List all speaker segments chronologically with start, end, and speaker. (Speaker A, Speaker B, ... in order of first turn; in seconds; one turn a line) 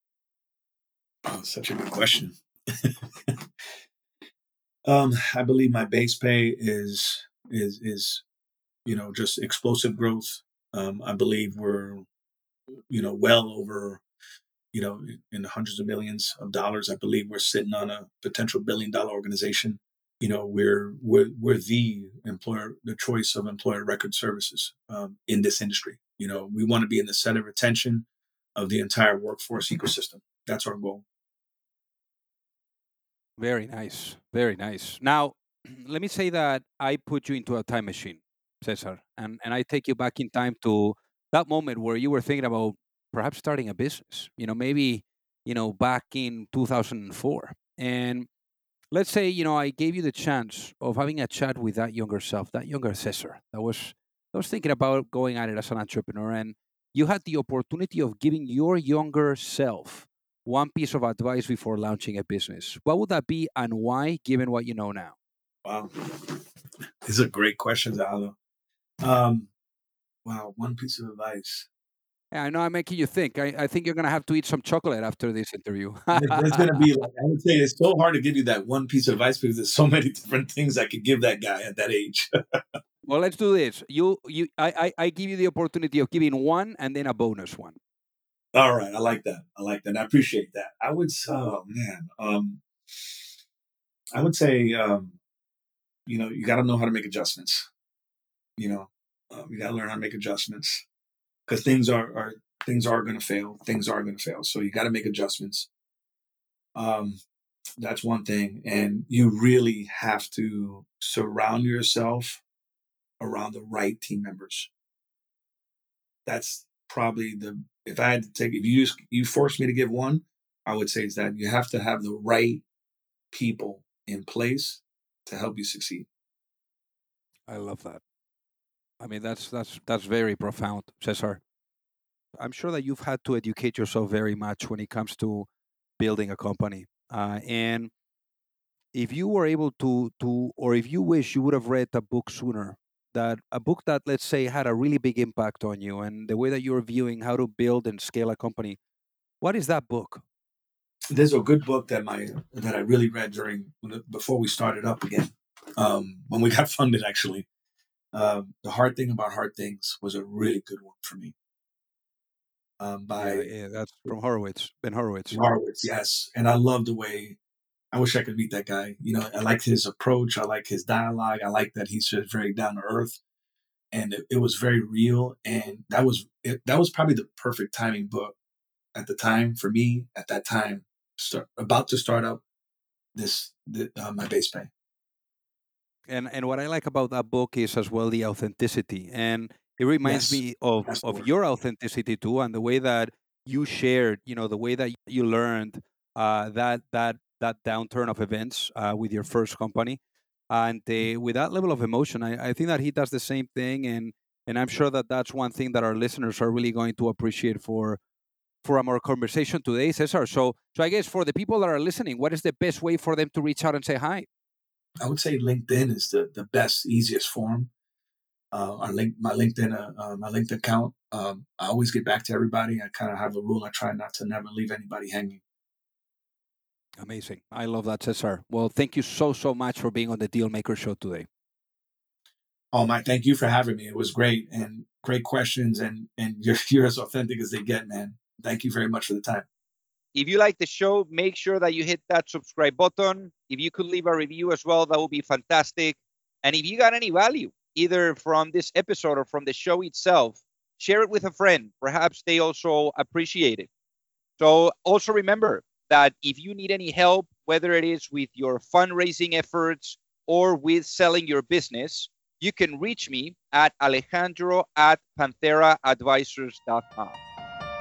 Speaker A: 1.3-3.4
Speaker A: 4.9-8.2
Speaker A: 8.8-12.1
Speaker A: 12.9-14.0
Speaker A: 14.7-31.1
Speaker B: 33.4-48.3
Speaker B: 48.9-65.2
Speaker A: 65.6-66.4
Speaker A: 67.0-68.3
Speaker A: 69.0-69.5
Speaker A: 70.2-71.7
Speaker B: 72.3-76.9
Speaker A: 76.1-82.6
Speaker B: 83.1-87.8
Speaker A: 88.5-92.6
Speaker A: 94.2-95.2
Speaker A: 96.1-97.7
Speaker A: 98.6-100.8
Speaker A: 101.5-105.7
Speaker A: 106.8-107.2
Speaker A: 107.8-112.4
Speaker A: 113.2-114.7
Speaker A: 116.3-122.6
Speaker A: 123.3-126.1
Speaker B: 127.5-128.0
Speaker B: 129.0-131.4
Speaker B: 132.4-135.5
Speaker B: 136.0-137.9
Speaker B: 138.9-148.8
Speaker B: 149.4-150.2
Speaker A: 151.1-157.5
Speaker A: 158.1-161.3
Speaker A: 162.8-163.5
Speaker B: 163.2-165.8
Speaker A: 165.3-167.4
Speaker A: 167.9-173.2
Speaker A: 173.9-178.3
Speaker A: 178.9-182.4
Speaker A: 183.2-184.7
Speaker B: 186.1-200.0
Speaker A: 190.0-191.3
Speaker B: 200.5-208.0
Speaker B: 208.6-214.3
Speaker A: 215.0-217.7
Speaker A: 218.5-225.4
Speaker B: 227.0-231.3
Speaker A: 232.7-239.5
Speaker C: 240.2-253.7
Speaker B: 247.5-247.8
Speaker C: 254.4-267.2
Speaker B: 255.6-255.9